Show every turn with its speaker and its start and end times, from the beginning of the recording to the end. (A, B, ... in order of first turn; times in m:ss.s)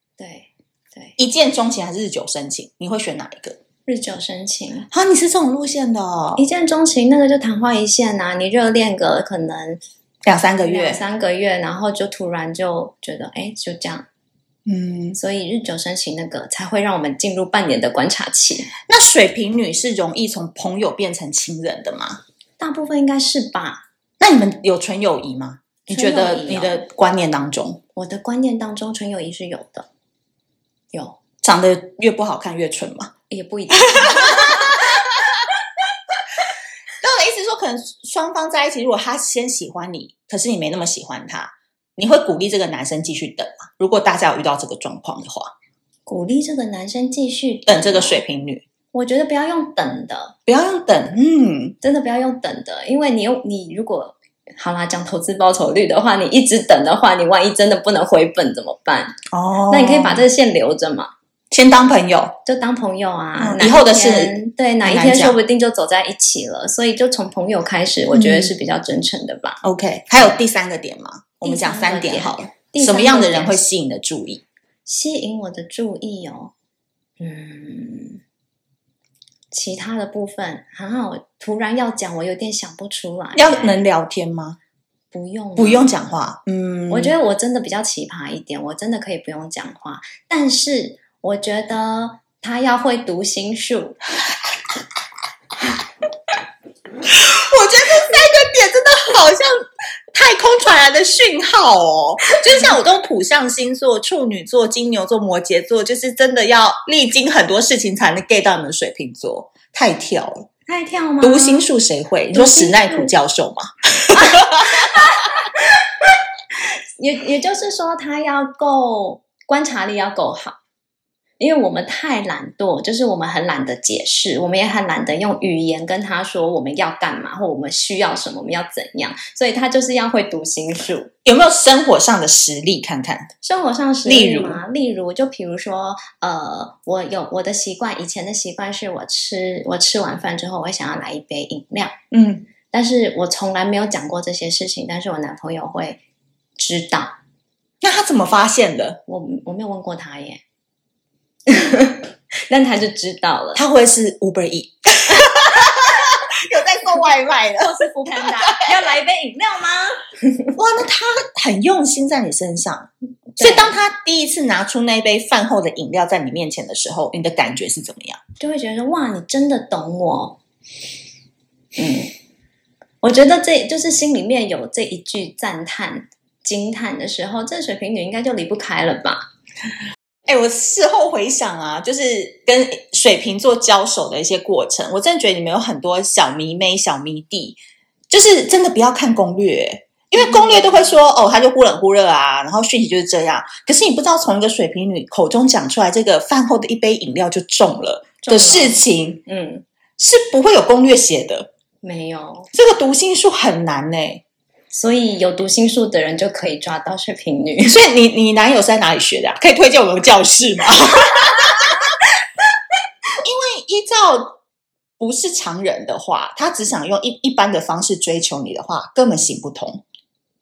0:00.2-0:01.2 A
0:01.2-0:03.6 B
0:03.8-0:04.9 A
0:04.9-0:06.4 B
0:06.4-0:09.8 A
0:10.2-0:11.0 B
0:10.6-0:14.0 A
0:14.6-0:15.2 B
0:15.2-0:18.7 A
0:18.9-0:22.2 B
0:22.6-0:23.8 A
0:24.2-0:27.8 B
0:25.9-0:26.8 A
0:27.9-0:29.9 A
0:30.9-0:31.2 A
0:31.4-0:33.1 B
0:33.3-0:34.8 A
0:33.9-0:35.2 B
0:37.0-0:45.5 B
0:46.0-0:48.2 A
0:47.7-0:48.6 B
0:48.9-0:50.3 A
0:50.5-0:51.8 B
0:51.8-0:59.2 A
0:59.3-1:00.2 B
0:59.7-1:01.1 A
1:01.5-1:02.4 B
1:02.4-1:09.6 A
1:03.4-1:05.4 B
1:08.1-1:08.5 B
1:09.6-1:14.4 B
1:11.4-1:13.6 A
1:14.8-1:16.5 A
1:17.2-1:18.2 A
1:19.5-1:23.8 A
1:23.3-1:24.6 B
1:25.1-1:26.0 A
1:25.6-1:27.1 B
1:26.9-1:34.0 A
1:37.1-1:39.5 B
1:40.1-1:50.5 B
1:50.7-1:51.6 A
1:51.2-1:54.9 B
1:52.3-1:53.1 A
1:54.2-1:55.8 A
1:57.0-2:00.6 A
2:01.4-2:11.1 A
2:11.2-2:13.3 B
2:13.4-2:22.0 A
2:14.0-2:14.6 B
2:22.1-2:22.5 B
2:22.7-2:26.0 A
2:26.6-2:27.1 A
2:27.8-2:29.0 B
2:29.1-2:30.4 A
2:31.5-2:33.6 A
2:33.5-2:38.7 B
2:37.6-2:40.5 A
2:40.6-2:48.2 B
2:43.4-2:43.8 A
2:48.4-2:50.4 A
2:51.8-2:52.1 A
2:53.0-2:59.2 A
3:00.3-3:07.6 B
3:08.1-3:19.2 B
3:10.2-3:10.8 A
3:18.2-3:19.6 A
3:20.0-3:21.5 B
3:21.8-3:22.5 A
3:22.5-3:24.2 B
3:24.7-3:27.8 A
3:27.6-3:31.7 B
3:33.2-3:34.3 B
3:35.0-3:39.8 B